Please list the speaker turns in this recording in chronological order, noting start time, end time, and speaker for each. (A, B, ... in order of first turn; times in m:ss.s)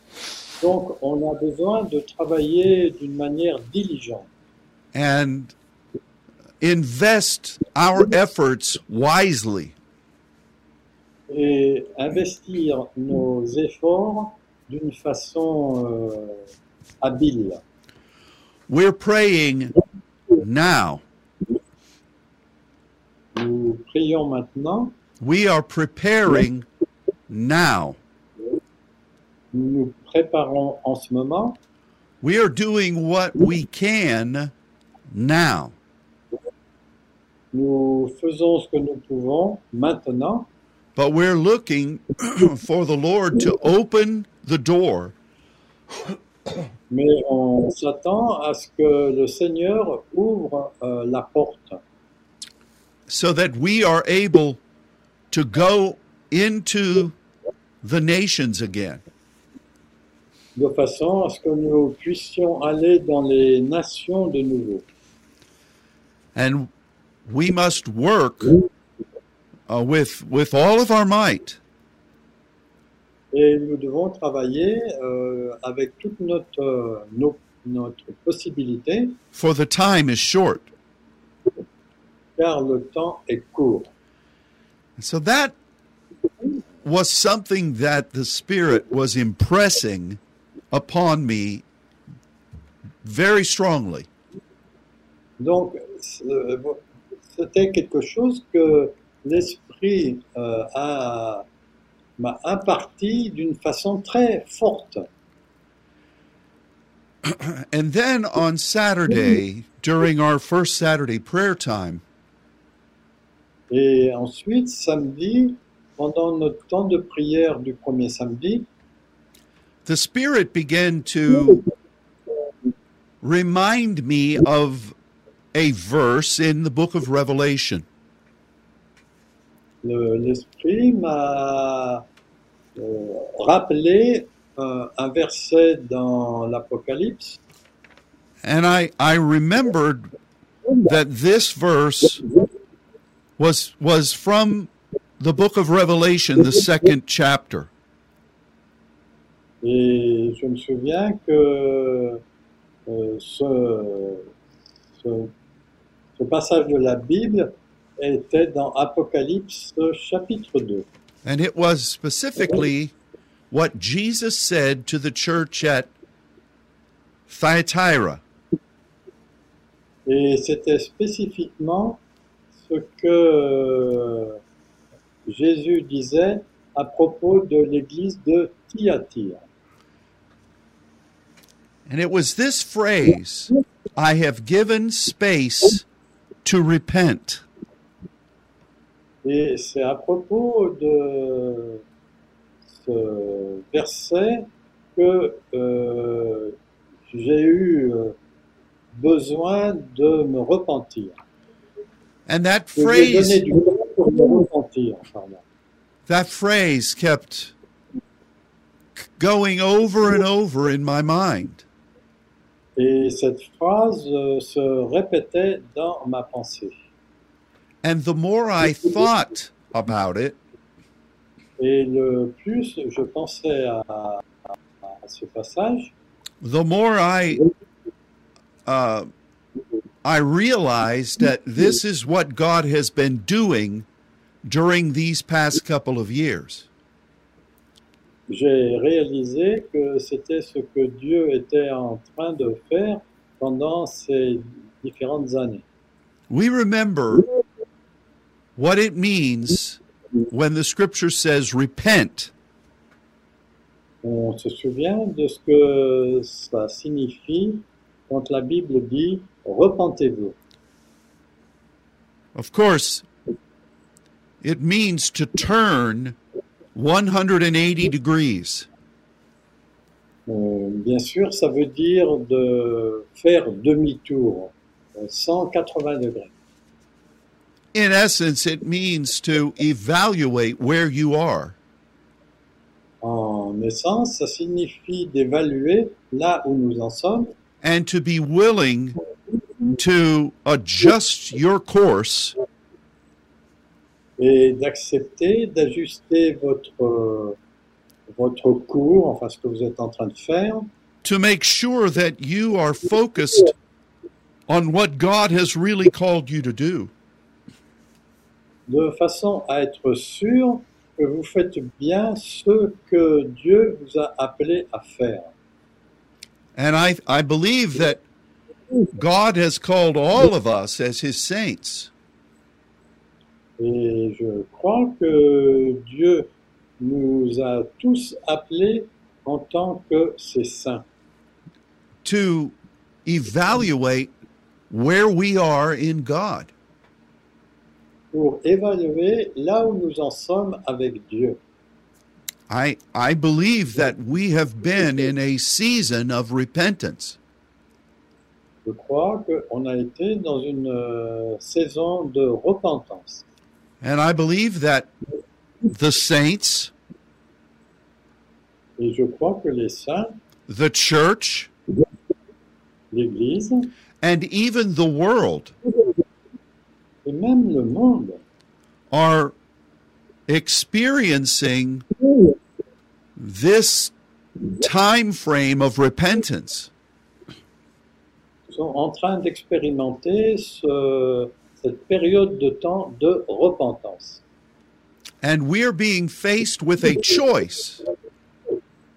0:00.6-0:04.3 A
0:04.9-0:05.5 B
0:06.6-0:09.7 B
0:11.3-0:16.4 A
0:17.0-0:17.6 A
0:18.7-0:19.7 B
0:20.4-0:21.0 B
0:23.3-0:24.9 A
0:25.2-0:26.6 B
0:27.3-0:28.0 B
0:29.5-0:31.6 A
0:32.2-0:34.5 B
0:35.1-0:35.7 B
0:37.5-0:40.5 A
0:41.0-0:45.1 B
0:46.9-0:51.8 A
0:53.1-0:54.6 B
0:55.3-0:57.2 B
0:57.8-0:59.0 B
1:00.6-1:04.8 A
1:06.3-1:06.7 B
1:07.3-1:08.5 B
1:09.7-1:11.6 B
1:13.3-1:19.2 A
1:19.3-1:20.7 B
1:22.4-1:23.9 A
1:25.0-1:25.5 B
1:26.8-1:30.2 B
1:30.7-1:31.6 B
1:33.0-1:34.1 B
1:35.4-1:41.4 A
1:42.2-1:45.1 A
1:47.2-1:52.0 B
1:53.7-1:58.7 A
1:59.8-2:01.6 B
2:03.2-2:04.9 B
2:05.5-2:07.8 B
2:09.8-2:12.0 A
2:12.8-2:17.4 A
2:18.4-2:20.1 B
2:20.8-2:22.2 B
2:23.4-2:27.7 B
2:29.6-2:32.2 A
2:32.9-2:34.3 A
2:35.0-2:35.3 A
2:36.2-2:40.8 A
2:41.2-2:42.9 B
2:43.5-2:45.9 B
2:47.3-2:48.2 B
2:50.0-2:52.0 A
2:52.6-2:54.4 A
2:55.3-2:59.4 A
3:01.9-3:05.8 B
3:06.4-3:07.4 B
3:09.2-3:11.8 A
3:12.7-3:16.5 A
3:17.1-3:18.2 A
3:19.0-3:21.2 A
3:22.3-3:23.4 B
3:22.8-3:25.4 A
3:26.1-3:27.5 B
3:29.2-3:31.6 B
3:32.8-3:36.7 A
3:37.8-3:40.4 B
3:41.6-3:44.2 A
3:44.8-3:45.9 A
3:46.4-3:47.4 B
3:48.6-3:49.1 B
3:50.0-3:53.8 B
3:54.4-3:56.7 B
3:58.3-4:05.6 A
4:06.3-4:07.3 B
4:08.6-4:12.3 B
4:14.0-4:20.4 A
4:22.3-4:23.0 B
4:24.4-4:26.2 B
4:26.7-4:28.7 B
4:30.3-4:36.3 A
4:37.7-4:41.6 B
4:43.0-4:47.3 A
4:47.6-4:49.0 B
4:49.6-4:52.4 B
4:54.2-4:57.4 A
4:58.1-5:00.7 A
5:01.0-5:03.5 B
5:04.5-5:06.9 B
5:08.7-5:15.3 A
5:16.6-5:18.0 B
5:18.9-5:21.9 B
5:23.6-5:26.3 A
5:26.8-5:30.8 A
5:32.0-5:34.1 B
5:34.7-5:36.5 B
5:38.1-5:41.4 A
5:42.5-5:47.2 B
5:48.6-5:53.2 A
5:53.8-5:54.9 B
5:55.7-5:56.7 B
5:58.8-6:00.2 A
6:00.5-6:01.5 B
6:02.9-6:03.7 A
6:04.0-6:05.5 B
6:07.0-6:08.2 A
6:08.9-6:09.3 B
6:10.3-6:11.8 B
6:13.2-6:13.9 B
6:14.6-6:16.7 B
6:18.5-6:24.2 A
6:25.2-6:27.8 B